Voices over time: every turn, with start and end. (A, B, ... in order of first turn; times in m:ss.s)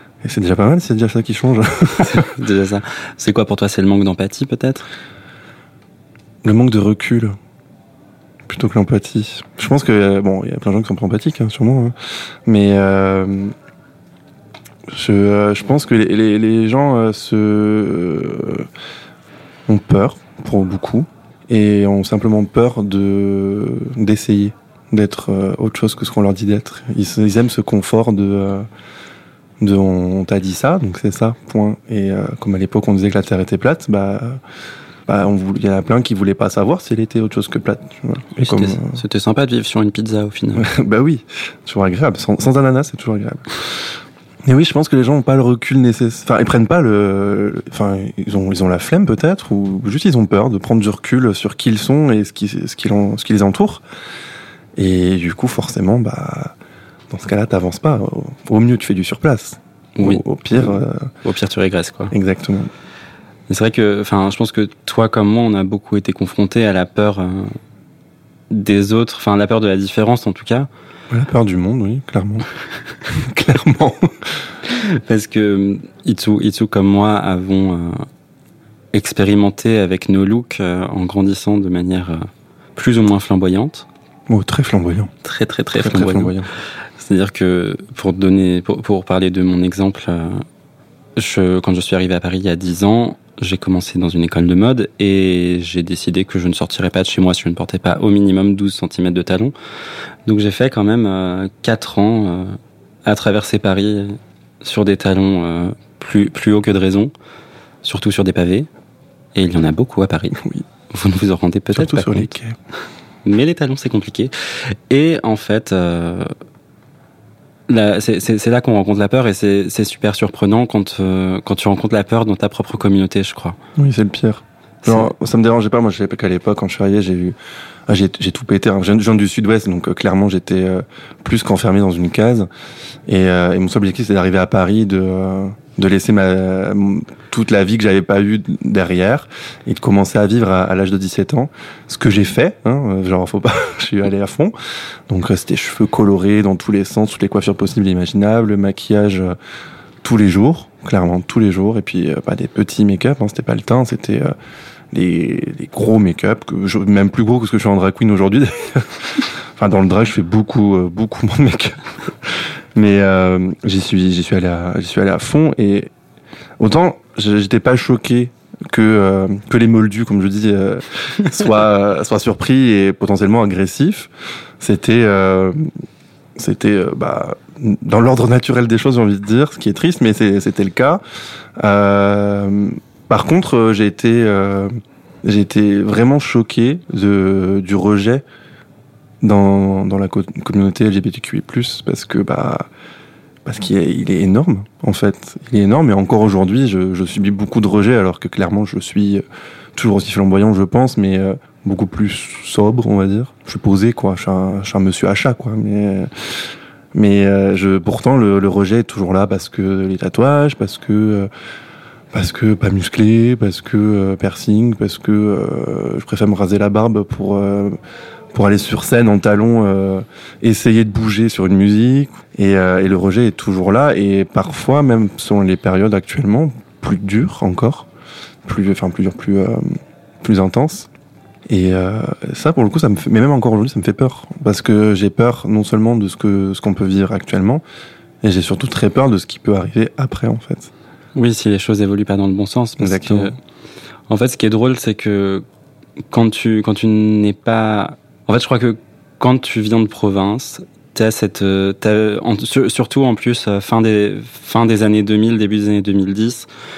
0:00.2-0:02.2 A
0:02.0-0:04.8 B
0:06.4-0:07.4 A
0:08.5-0:13.5 A
0:14.9-0:18.7 A
0:19.7-0:28.7 A
0:29.6-0:34.4 A
0:35.1-0:39.0 A
0:38.4-0:40.7 B
0:40.5-0:53.8 A
0:54.8-0:56.5 A
0:57.1-1:01.1 A
1:00.0-1:02.1 B
1:02.1-1:02.7 A
1:03.5-1:07.6 B
1:08.5-1:10.7 B
1:11.1-1:12.5 A
1:13.1-1:14.4 A
1:14.7-1:18.0 B
1:18.9-1:23.8 B
1:24.3-1:25.1 A
1:25.2-1:26.4 B
1:25.7-1:26.5 A
1:27.0-1:30.4 B
1:31.2-1:39.5 B
1:40.2-1:47.1 B
1:47.8-1:48.7 B
1:49.3-1:52.3 B
1:50.3-1:50.6 A
1:51.7-1:52.6 A
1:53.2-1:56.3 B
1:57.7-2:03.6 B
2:03.8-2:07.4 A
2:04.8-2:05.1 B
2:07.9-2:12.5 A
2:13.1-2:24.5 A
2:25.1-2:29.3 A
2:30.0-2:34.3 A
2:34.9-2:45.9 A
2:46.6-2:55.7 A
2:56.4-3:01.0 A
3:01.6-3:08.2 A
3:09.2-3:12.7 A
3:13.4-3:19.2 A
3:19.7-3:31.3 A
3:32.1-3:37.8 A
3:38.3-3:47.9 A
3:48.4-3:50.9 A
3:51.5-3:57.6 A
3:58.2-4:00.7 A
4:01.1-4:03.4 B
4:02.8-4:03.3 A
4:04.1-4:05.4 B
4:06.1-4:16.5 B